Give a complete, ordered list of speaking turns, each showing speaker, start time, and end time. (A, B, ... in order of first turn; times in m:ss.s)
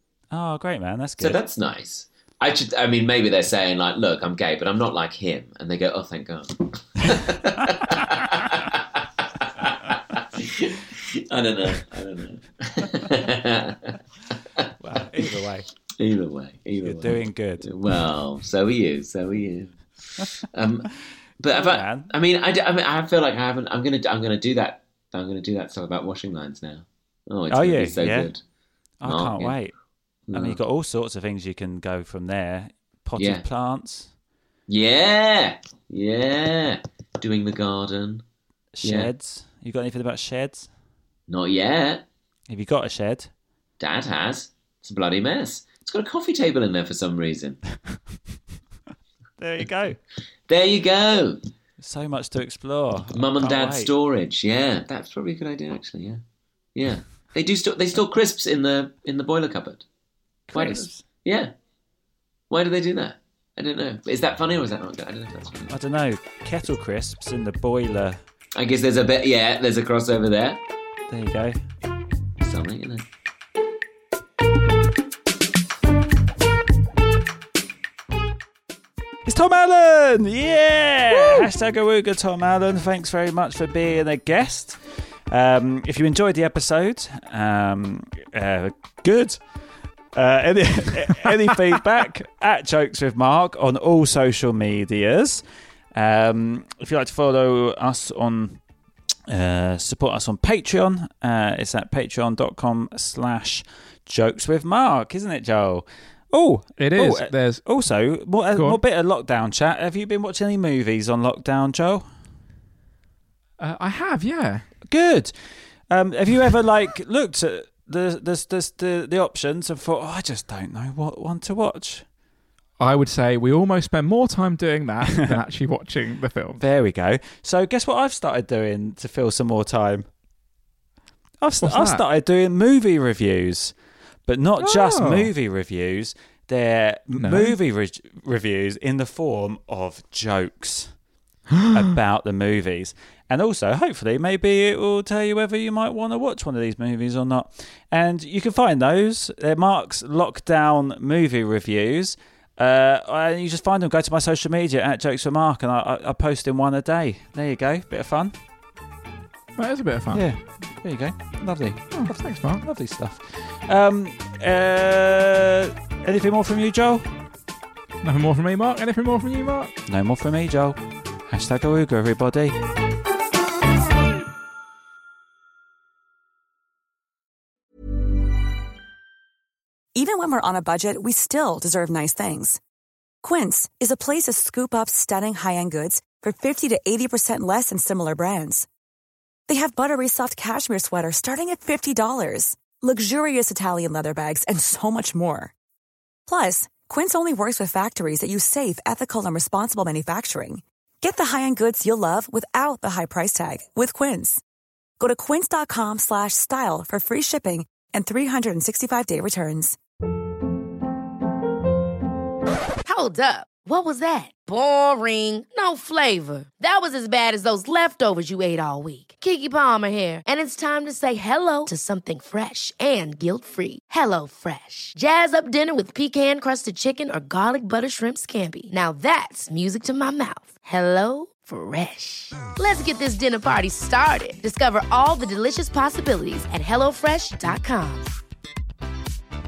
0:00.3-0:01.4 A
0:01.2-0:14.0 B
0:14.8-0:15.7 A
0:16.0-0:20.9 B
0:16.8-0:17.7 A
0:21.4-0:28.4 B
0:21.5-0:22.1 A
0:27.5-0:28.3 A
0:29.0-0:29.7 A
0:29.1-0:29.6 B
0:30.3-0:30.6 B
0:30.3-0:34.1 A
0:33.2-0:33.4 B
0:34.7-0:38.2 B
0:38.8-0:40.7 A
0:38.8-0:39.1 B
0:41.3-0:42.0 B
0:42.5-0:43.3 A
0:43.8-0:47.6 B
0:49.4-0:50.0 A
0:50.5-0:51.4 B
0:51.8-0:53.9 A
0:53.1-0:56.2 B
0:56.8-0:59.8 B
1:00.5-1:01.0 A
1:00.5-1:01.5 B
1:02.5-1:05.8 B
1:05.7-1:08.2 A
1:08.5-1:10.6 B
1:11.1-1:11.6 A
1:12.4-1:13.0 B
1:19.2-1:35.4 A
1:35.9-1:38.6 A
1:39.3-1:52.1 A
1:46.8-1:48.8 C
1:53.6-1:54.7 C
1:54.8-2:02.1 A
2:02.8-2:06.6 C
2:06.6-2:10.1 A
2:11.4-2:20.9 A
2:11.6-2:12.0 C
2:14.6-2:15.3 C
2:17.2-2:17.5 C
2:21.7-2:38.4 A
2:39.6-2:40.3 C
2:40.1-2:47.1 A
2:41.9-2:42.6 C
2:48.0-2:49.7 C
2:49.9-2:52.6 A
3:00.0-3:02.6 D
3:03.2-3:08.7 D
3:09.5-3:15.5 D
3:16.3-3:24.4 D
3:25.0-3:29.8 D
3:32.8-3:58.1 E